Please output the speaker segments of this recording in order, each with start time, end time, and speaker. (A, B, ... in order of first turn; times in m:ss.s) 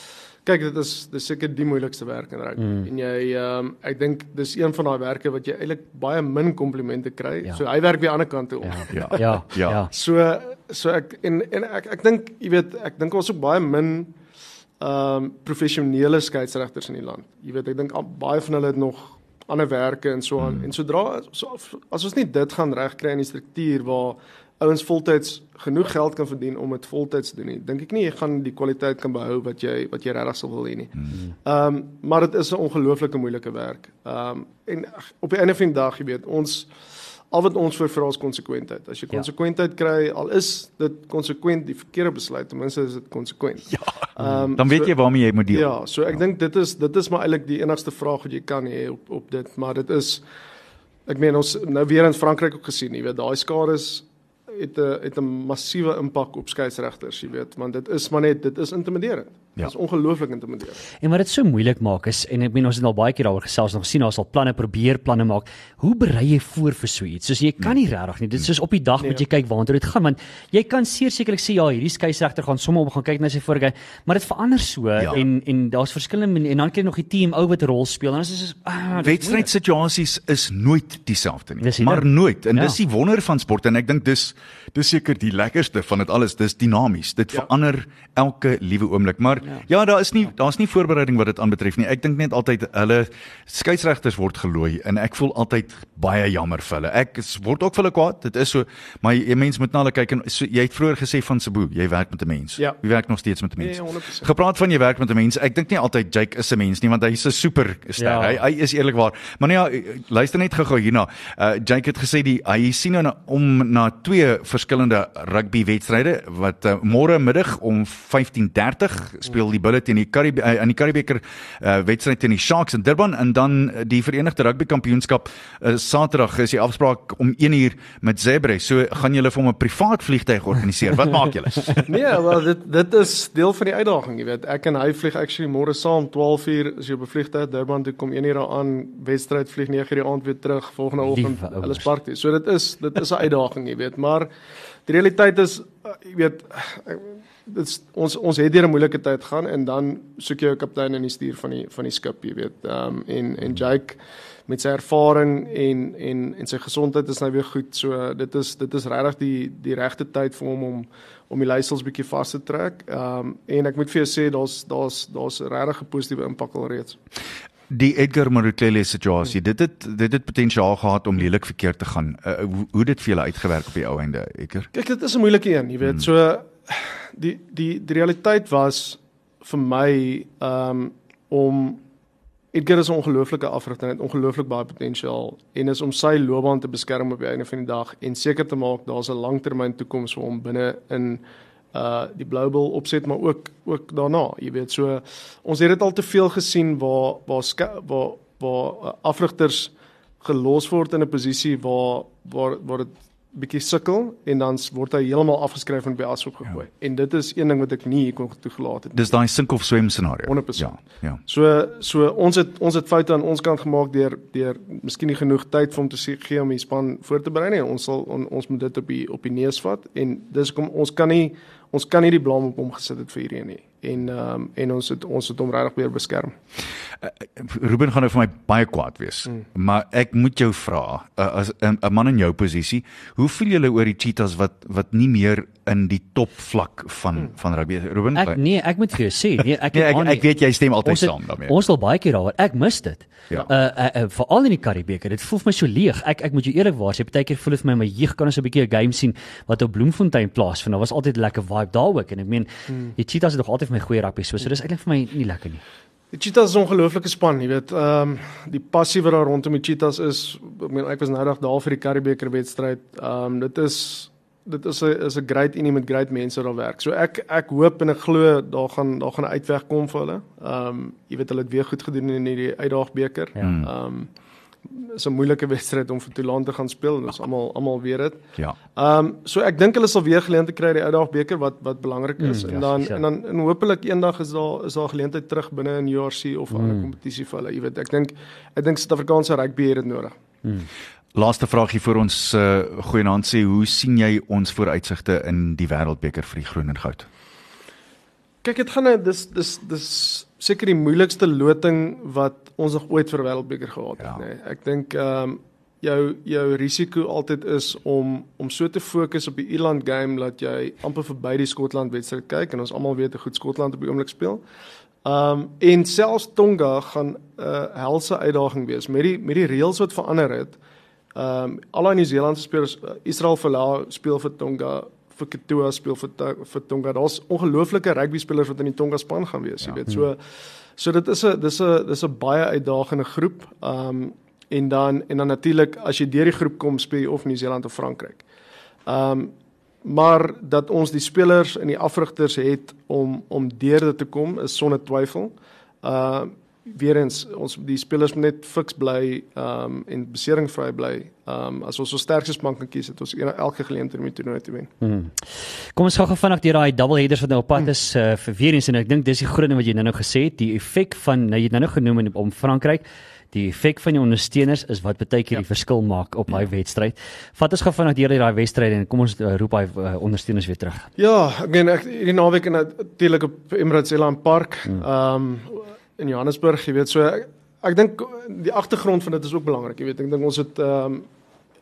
0:00.4-0:09.2 A
0:02.6-0:02.9 B
0:08.6-0:09.9 B
0:08.9-0:09.8 C
0:09.9-0:14.1 A
0:14.8-0:30.9 A
0:20.4-0:20.7 C
0:31.4-0:36.7 A
0:37.3-0:44.9 A
0:44.5-0:46.2 C
0:45.5-0:50.2 A
0:51.1-1:00.8 A
1:01.0-1:19.5 B
1:19.0-2:11.8 C
1:21.6-1:22.8 B
1:43.6-1:44.3 A
1:48.0-1:48.4 B
2:11.8-2:24.3 A
2:21.0-2:21.9 B
2:24.9-2:47.0 A
2:47.7-2:54.7 C
2:54.7-3:01.8 A
3:02.5-3:11.2 A
3:11.7-3:29.1 A
3:29.0-3:31.2 C
3:30.3-3:46.4 A
3:47.0-3:58.4 C
3:58.1-4:00.3 B
3:59.7-4:01.5 C
4:00.8-4:15.6 B
4:16.1-4:34.1 A
4:33.4-4:33.7 C
4:34.7-4:38.2 A
4:38.7-4:50.1 A
4:42.2-4:43.0 B
4:46.5-4:46.9 B
4:51.1-4:57.1 C
4:58.4-5:14.4 A
5:15.0-5:20.6 A
5:21.1-5:30.2 A
5:30.8-5:38.2 A
5:38.9-5:39.3 A
5:39.8-5:54.7 A
5:54.8-6:10.9 B
6:11.0-6:21.0 A